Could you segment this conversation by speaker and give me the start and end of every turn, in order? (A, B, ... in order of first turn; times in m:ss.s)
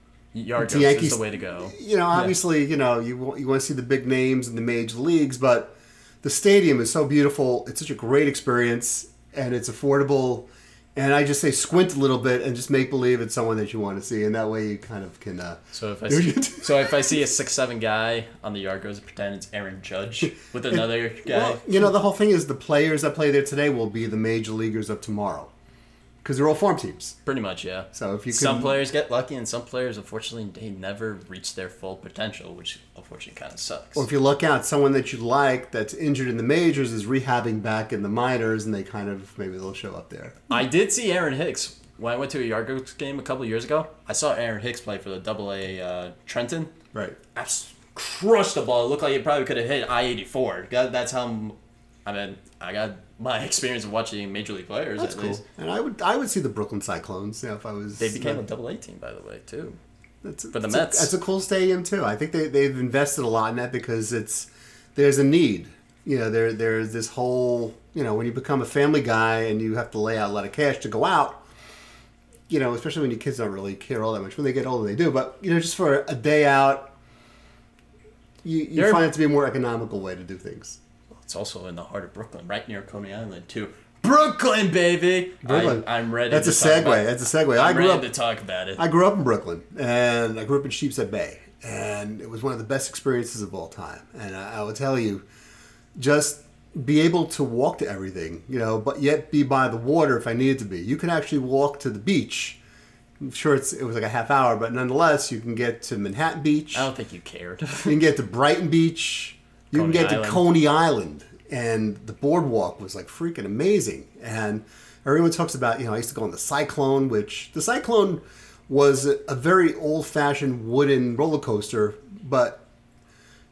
0:00.3-0:02.4 A
0:00.6-0:17.2 B
0:15.7-0:21.7 A
0:20.7-0:25.5 B
0:26.2-0:27.2 B
0:27.2-0:34.0 A
0:27.9-0:28.8 B
0:34.0-0:40.5 B
0:40.5-0:46.7 A
0:47.3-0:55.4 A
0:55.0-0:58.4 B
0:58.0-0:59.8 A
1:00.2-1:11.4 B
1:00.5-1:01.1 A
1:12.5-1:16.9 B
1:18.4-1:20.8 B
1:18.7-1:19.0 A
1:21.2-1:28.8 A
1:25.4-1:28.1 B
1:28.8-1:35.2 B
1:36.0-1:42.6 B
1:43.2-1:46.9 B
1:46.7-1:48.0 A
1:47.8-2:02.6 B
1:49.7-1:50.5 A